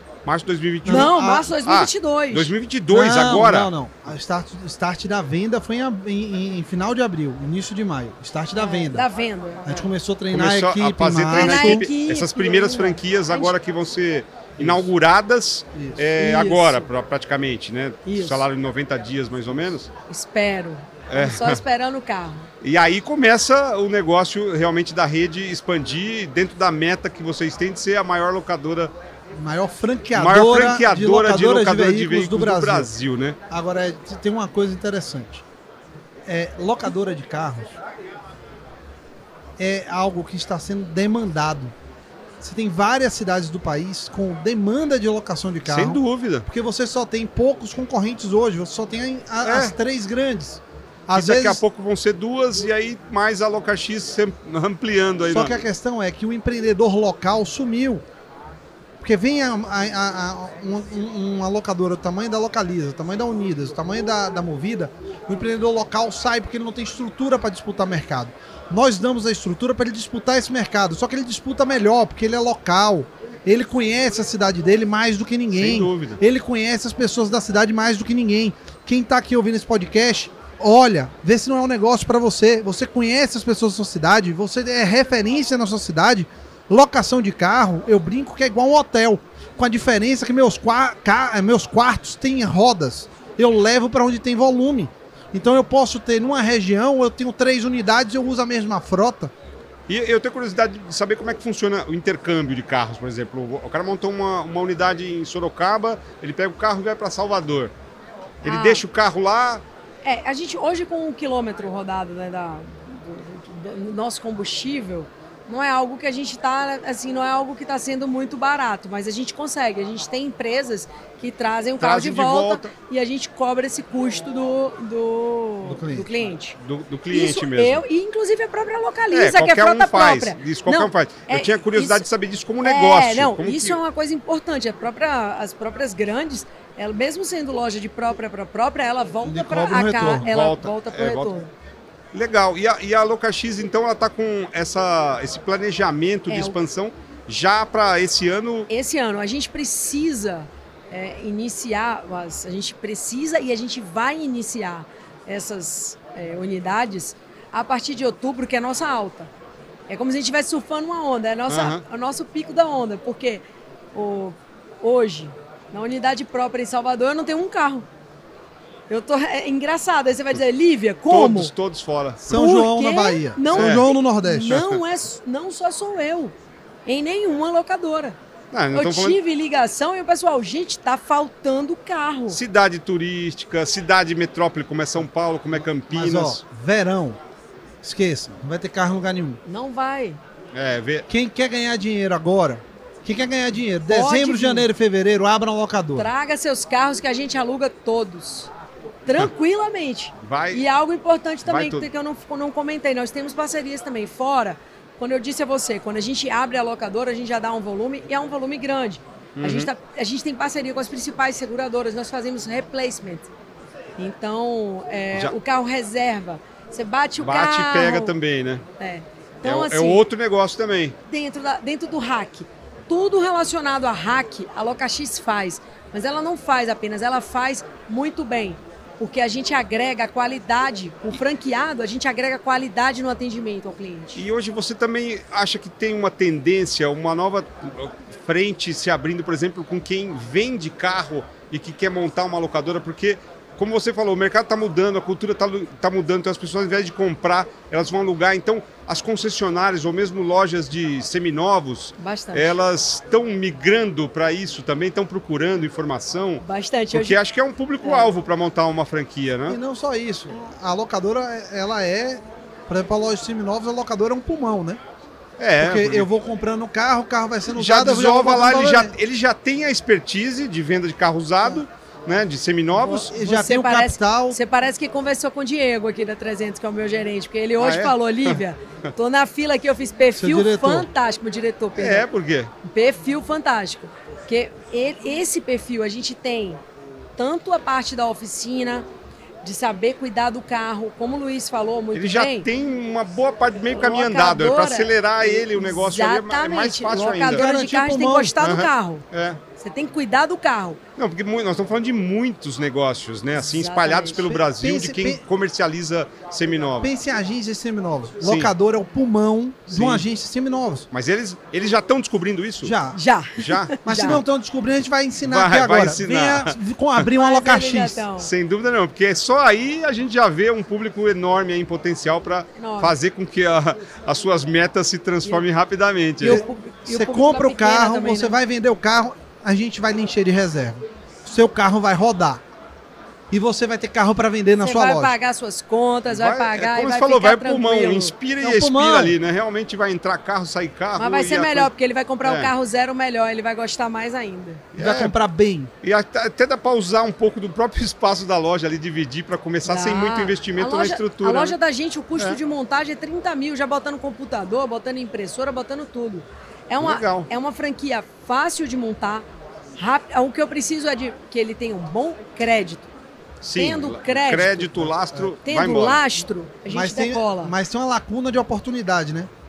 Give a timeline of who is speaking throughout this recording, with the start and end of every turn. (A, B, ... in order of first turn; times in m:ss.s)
0:00.2-0:03.7 A
0:00.8-0:01.5 B
0:00.8-0:02.5 C
0:02.9-0:09.1 B
0:08.5-0:09.9 C
0:09.6-0:11.8 B
0:10.3-0:19.9 A
0:11.3-0:13.5 C
0:14.6-0:14.8 B
0:15.7-0:16.0 B
0:16.2-0:16.9 C
0:18.0-0:18.4 C
0:20.1-0:22.5 C
0:21.1-0:21.6 A
0:22.6-0:28.9 A
0:29.3-0:32.9 B
0:30.1-0:33.4 A
0:33.5-0:35.4 B
0:36.3-0:37.7 B
0:39.6-0:41.7 B
0:42.4-0:51.6 B
0:45.6-0:46.4 A
0:49.4-0:49.7 A
0:51.1-0:55.5 A
0:55.3-0:58.0 B
0:59.0-1:39.3 B
1:15.5-1:16.2 A
1:39.9-1:47.7 A
1:48.4-1:49.6 A
1:48.4-1:48.8 C
1:50.0-2:06.6 C
2:01.8-2:02.7 A
2:05.6-2:06.1 B
2:06.6-2:07.8 A
2:07.1-2:12.0 C
2:09.1-2:13.8 A
2:12.6-2:21.5 C
2:19.2-2:20.3 B
2:20.0-2:21.3 A
2:22.1-2:28.7 A
2:26.3-2:26.6 C
2:28.7-2:39.3 C
2:39.9-2:47.9 C
2:41.5-2:41.8 A
2:48.9-2:51.5 C
2:51.1-2:52.4 A
2:52.2-2:54.6 B
2:52.3-2:56.3 C
2:53.5-2:53.8 A
2:54.5-2:54.8 A
2:56.8-2:58.2 C
2:58.5-2:59.2 A
2:58.7-3:02.4 C
3:02.3-3:06.4 A
3:05.9-3:07.2 B
3:07.8-3:09.4 B
3:09.4-3:10.2 C
3:10.5-3:11.1 A
3:11.1-3:16.1 B
3:13.9-3:14.7 C
3:16.0-3:18.5 C
3:19.0-3:33.3 C
3:20.2-3:20.6 A
3:21.4-3:21.9 A
3:29.4-3:29.7 A
3:34.0-3:38.1 C
3:37.2-3:38.6 A
3:38.8-3:40.1 C
3:39.4-3:41.0 A
3:41.1-3:54.2 C
3:54.2-4:19.6 A
4:12.0-4:12.6 C
4:16.4-4:17.2 C
4:17.8-4:18.1 C
4:19.5-4:24.8 B
4:25.4-4:26.0 A
4:25.6-4:28.9 B
4:27.5-4:33.1 A
4:32.8-4:42.0 C
4:32.9-4:34.4 B
4:37.6-4:38.4 A
4:40.2-4:40.9 B
4:41.8-4:42.5 A
4:42.6-4:46.6 C
4:47.2-4:48.8 C
4:49.4-4:52.5 C
4:51.9-4:57.4 A
4:53.7-5:00.8 C
4:57.2-4:58.4 B
4:58.4-4:59.4 A
5:01.0-5:06.9 A
5:03.4-5:04.3 C
5:04.2-5:05.2 B
5:06.8-5:10.9 B
5:08.2-5:08.5 A
5:09.7-5:10.0 A
5:10.9-5:12.8 A
5:12.6-5:13.0 B
5:12.9-5:14.2 C
5:13.4-5:14.2 A
5:13.8-5:18.0 B
5:15.2-5:16.6 A
5:17.1-5:18.3 C
5:18.2-5:26.4 A
5:22.6-5:22.9 C
5:26.2-5:28.4 C
5:26.2-5:32.4 B
5:33.3-5:35.1 B
5:34.6-5:38.1 C
5:36.1-5:41.7 A
5:38.4-5:39.2 B
5:41.0-5:44.6 C
5:42.2-5:42.5 A
5:44.7-5:45.1 A
5:44.8-5:45.7 B
5:45.8-5:51.6 A
5:49.6-5:59.2 C
5:56.8-5:57.3 A
5:59.8-6:02.9 C
6:03.4-6:06.0 A
6:03.5-6:04.9 C
6:05.4-6:07.5 C
6:06.7-6:09.3 B